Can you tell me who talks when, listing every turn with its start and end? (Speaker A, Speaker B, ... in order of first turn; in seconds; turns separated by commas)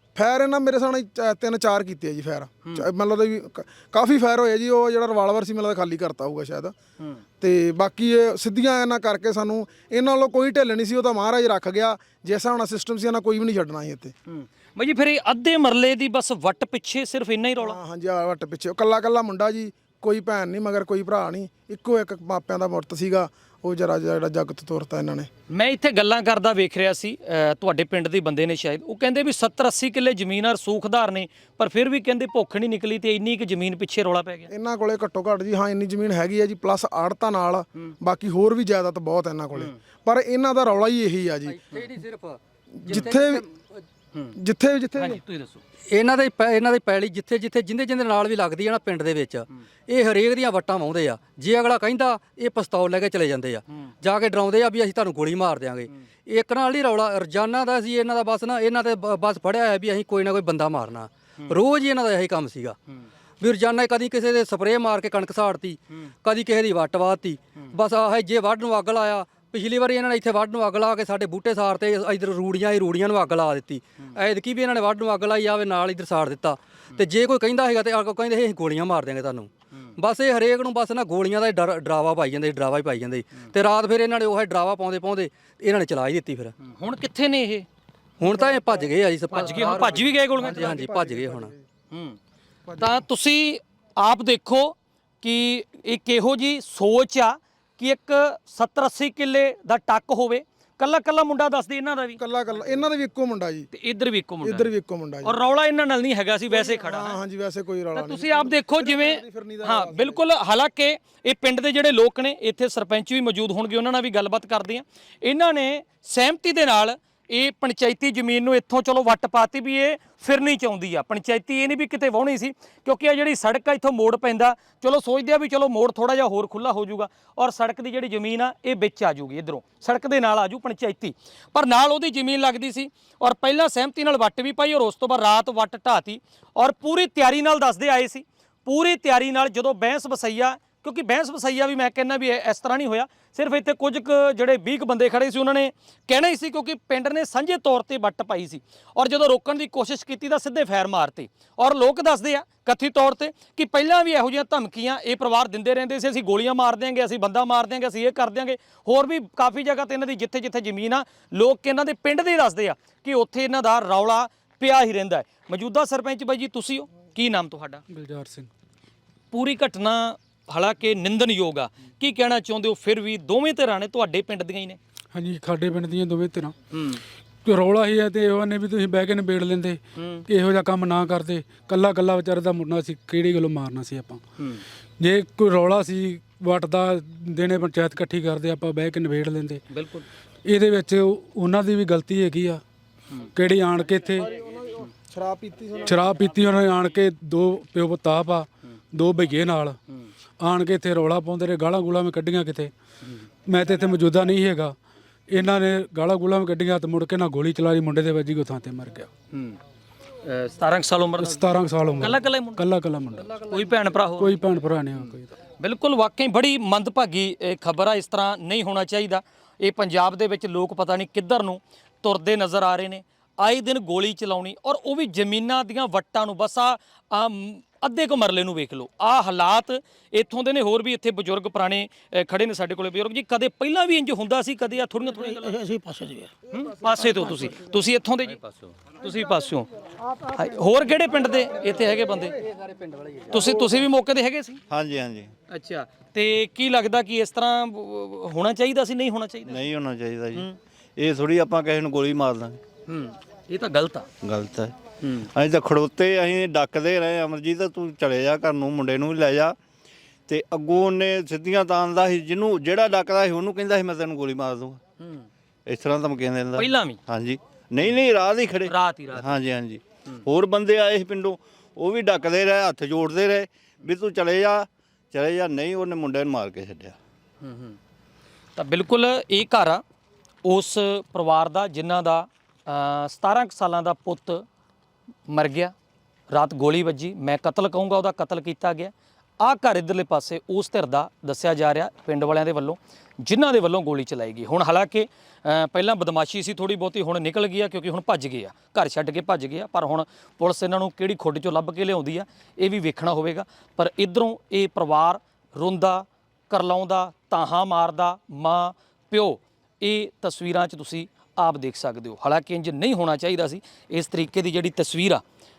Speaker A: 0.1-6.7, Speaker A: 7.4-14.1, Speaker B: 14.3-17.8, Speaker A: 17.6-25.3, Speaker B: 25.5-34.5, Speaker A: 34.5-41.6, Speaker C: 41.5-43.5, Speaker A: 42.8-43.4, Speaker A: 44.3-45.2, Speaker B: 45.0-45.6, Speaker C: 45.9-62.8, Speaker C: 63.4-86.5, Speaker B: 86.6-87.7, Speaker C: 88.2-91.5, Speaker A: 88.2-91.7, Speaker B: 89.3-90.8, Speaker B: 91.9-92.2, Speaker A: 92.7-93.0, Speaker B: 92.8-102.2, Speaker A: 102.2-103.7, Speaker B: 103.7-104.7, Speaker A: 104.4-105.3, Speaker B: 105.2-107.2, Speaker A: 106.5-110.2, Speaker B: 108.0-167.8, Speaker D: 167.9-168.5, Speaker B: 169.3-174.8, Speaker D: 175.1-176.5, Speaker B: 176.7-177.0, Speaker D: 177.4-184.2, Speaker B: 180.0-180.2, Speaker D: 185.0-189.6, Speaker B: 189.7-190.1, Speaker D: 190.4-192.6, Speaker D: 193.3-194.2, Speaker A: 194.2-196.4, Speaker D: 195.9-199.8, Speaker D: 200.4-202.7, Speaker D: 203.5-204.7, Speaker D: 205.3-209.1, Speaker B: 209.3-209.6, Speaker B: 210.2-212.7, Speaker D: 211.2-213.4, Speaker B: 213.4-214.4, Speaker D: 214.2-215.3, Speaker B: 215.0-235.7, Speaker C: 235.7-236.2, Speaker A: 236.5-237.8, Speaker B: 236.5-239.7, Speaker A: 240.1-240.6, Speaker B: 240.2-242.4, Speaker C: 242.4-243.4, Speaker B: 243.3-244.6, Speaker E: 244.7-245.3, Speaker B: 245.5-249.6, Speaker E: 249.4-252.6, Speaker B: 252.9-254.1, Speaker E: 254.2-259.6, Speaker E: 260.3-264.8, Speaker E: 265.7-277.0, Speaker B: 266.6-267.0, Speaker B: 268.6-269.3, Speaker B: 277.4-277.8, Speaker B: 278.6-279.8, Speaker B: 280.4-284.4, Speaker B: 285.3-285.7, Speaker B: 286.3-315.2